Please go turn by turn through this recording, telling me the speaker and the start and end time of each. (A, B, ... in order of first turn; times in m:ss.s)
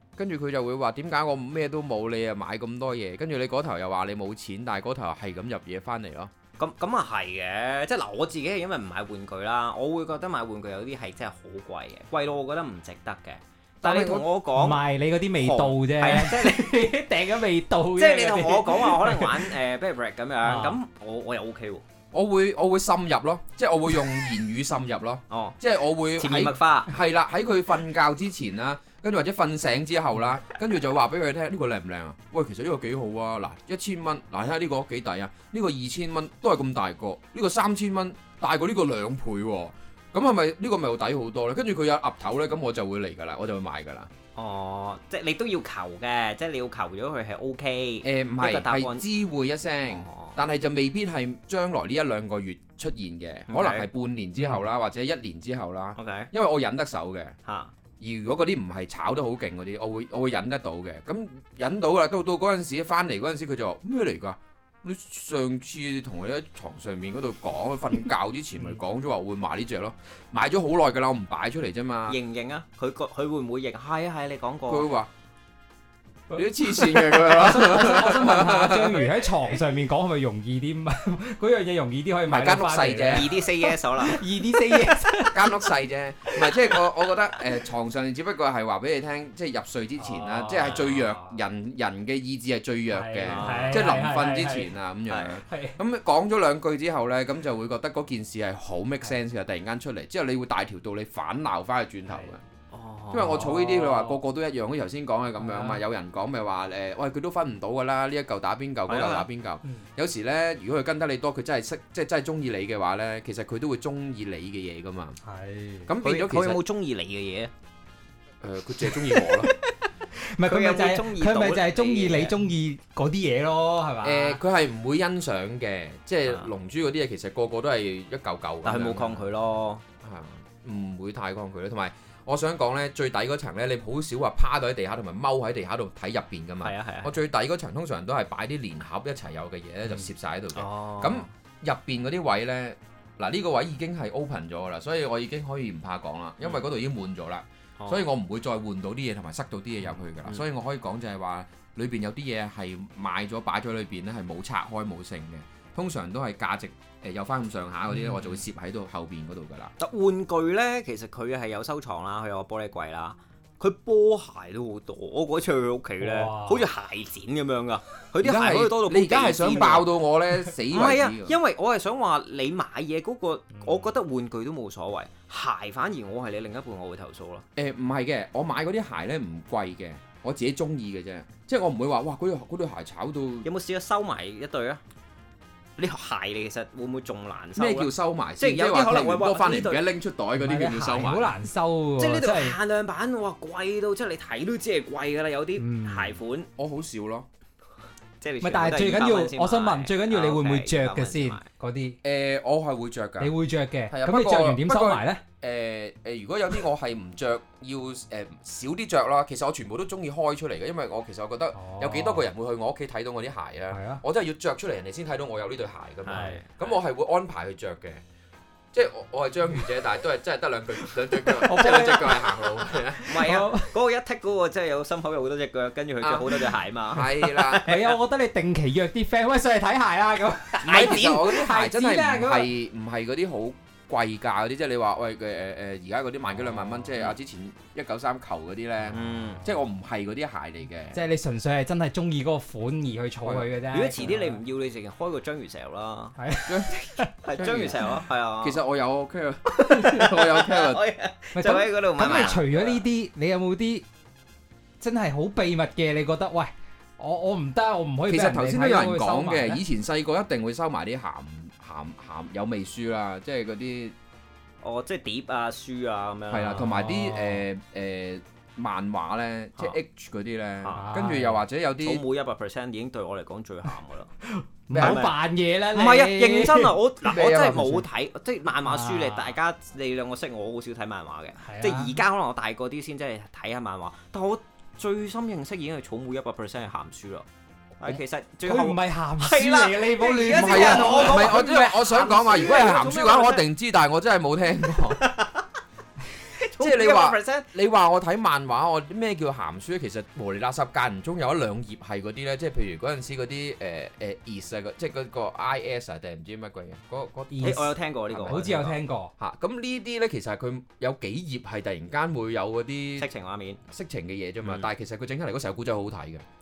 0:00.2-0:06.3 A
0:06.6-0:14.8 B
0:13.8-0:14.2 A
0:14.6-0:19.5 C
0:15.4-0:16.8 B
0:18.0-0:21.8 B
0:20.4-0:20.8 C
0:22.1-0:44.1 A
0:25.3-0:25.6 B
0:26.2-0:26.9 B
0:44.4-0:49.1 B
0:48.0-0:57.4 A
0:49.9-0:50.4 B
0:53.5-0:53.9 B
0:56.0-0:56.3 B
0:57.4-0:57.7 B
0:58.0-1:12.2 A
1:12.1-1:14.9 B
1:14.7-1:15.1 A
1:16.3-1:25.4 C
1:16.3-1:19.1 A
1:22.3-1:23.3 A
1:23.1-1:24.2 B
1:25.3-1:42.4 A
1:30.0-1:31.3 C
1:32.9-1:34.7 C
1:33.2-1:33.8 B
1:35.1-1:35.4 B
1:35.4-1:35.8 C
1:42.1-1:42.3 C
1:42.7-1:43.6 B
1:43.1-1:55.2 A
1:43.6-1:44.2 C
1:45.4-1:45.8 C
1:48.9-1:49.2 B
1:55.2-1:55.9 C
1:55.9-1:56.6 A
1:56.0-1:57.5 B
1:58.4-1:59.5 A
2:00.2-2:04.4 C
2:00.4-2:02.3 B
2:04.0-2:09.3 A
2:08.6-2:09.8 B
2:10.0-2:39.7 A
2:16.6-2:17.1 B
2:19.9-2:21.3 B
2:27.8-2:28.1 B
2:29.9-2:30.4 B
2:39.8-2:49.9 B
2:46.0-2:46.7 C
2:48.2-2:51.4 A
2:50.7-2:57.4 B
2:53.5-2:53.9 C
2:57.6-3:03.5 A
3:03.4-3:04.8 B
3:05.8-3:09.8 B
3:07.6-3:11.3 A
3:10.4-3:12.6 C
3:12.0-3:16.5 B
3:15.6-3:16.2 C
3:16.6-3:17.3 A
3:18.2-3:21.4 B
3:18.4-3:22.0 C
3:22.0-3:23.3 A
3:23.2-3:25.2 C
3:23.9-3:38.0 A
3:31.5-3:32.3 C
3:33.7-3:34.0 C
3:36.0-3:36.8 B
3:36.1-3:36.4 C
3:38.7-3:43.4 A
3:41.4-3:42.2 B
3:41.4-3:42.0 C
3:43.0-3:43.7 C
3:43.1-3:48.0 B
3:46.0-3:46.4 A
3:46.9-3:47.6 A
3:47.6-3:52.5 C
3:50.6-3:51.4 B
3:50.6-4:01.0 A
3:58.9-3:59.4 C
3:58.9-3:59.4 B
4:00.9-4:04.4 C
4:03.7-4:06.2 B
4:06.2-4:07.1 C
4:06.5-4:06.7 A
4:07.2-4:08.6 B
4:07.3-4:07.8 A
4:08.4-4:10.8 A
4:09.6-4:12.8 B
4:11.3-4:13.8 C
4:14.8-4:19.6 C
4:18.1-4:24.0 A
4:24.6-4:26.7 B
4:26.3-4:32.0 A
4:26.6-4:27.4 C
4:30.7-4:31.4 C
4:31.8-4:34.1 B
4:34.2-4:36.8 C
4:34.7-4:35.0 A
4:34.8-4:35.2 B
4:35.7-4:47.2 B
4:37.1-4:37.8 A
4:38.6-4:39.4 C
4:41.4-4:42.0 C
4:47.8-4:53.4 B
4:48.4-4:51.4 C
4:50.0-4:55.0 A
4:55.0-4:55.4 B
4:56.4-4:57.4 B
4:56.6-5:08.6 A
5:07.3-5:07.7 C
5:07.4-5:08.8 B
5:08.2-5:09.1 C
5:09.2-5:13.1 A
5:13.0-5:13.6 B
5:13.7-5:16.2 A
5:14.4-5:14.7 B